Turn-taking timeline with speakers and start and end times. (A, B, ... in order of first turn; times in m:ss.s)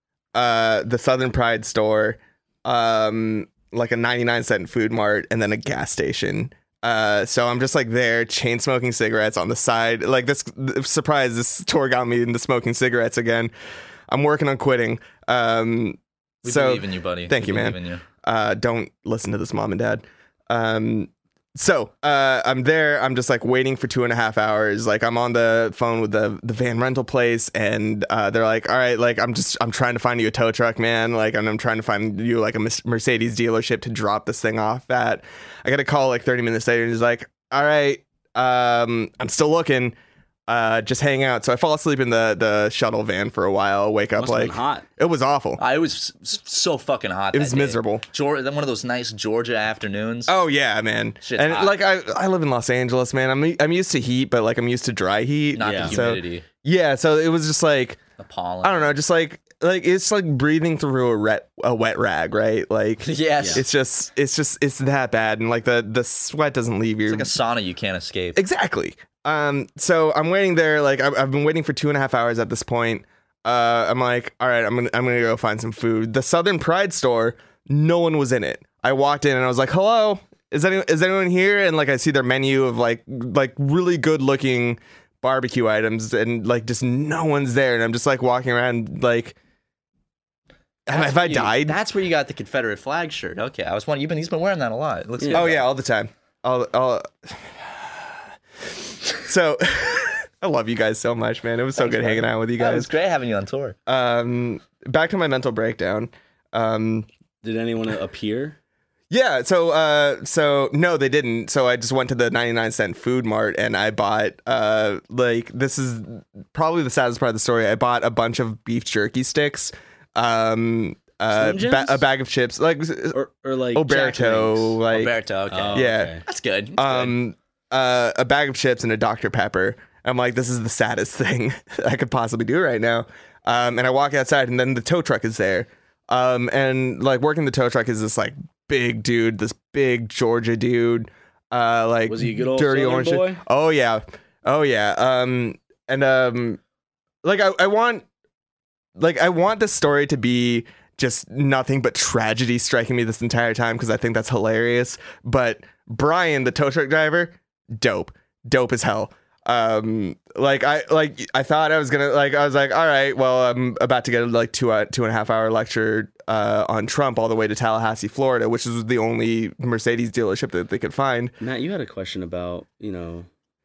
0:00.3-0:13.5 A
0:14.1-0:39.9 A
0:16.4-0:18.0 B
0:40.5-0:45.6 A
0:44.2-0:44.9 C
0:45.6-0:50.3 B
0:47.3-0:48.0 A
0:50.3-0:58.0 A
0:51.2-0:51.8 B
0:55.5-0:56.4 B
0:55.6-0:56.0 C
0:58.2-0:59.0 B
0:58.6-1:07.3 A
1:03.0-1:03.6 B
1:03.4-1:03.6 C
1:07.0-1:08.4 B
1:08.3-1:29.4 A
1:30.9-1:31.8 A
1:30.9-1:35.6 B
1:35.2-1:35.5 C
1:35.3-1:38.1 A
1:39.2-1:42.9 A
1:41.8-1:43.8 B
1:43.9-1:47.1 A
1:47.4-1:48.6 C
1:49.1-2:03.2 A
2:01.3-2:02.0 C
2:03.1-2:04.8 C
2:03.7-2:05.1 A
2:04.9-2:07.1 B
2:05.5-2:06.2 C
2:05.7-2:06.2 A
2:06.8-2:26.6 A
2:22.1-2:23.4 C
2:27.2-2:28.0 A
2:29.0-2:51.4 A
2:51.4-2:53.3 C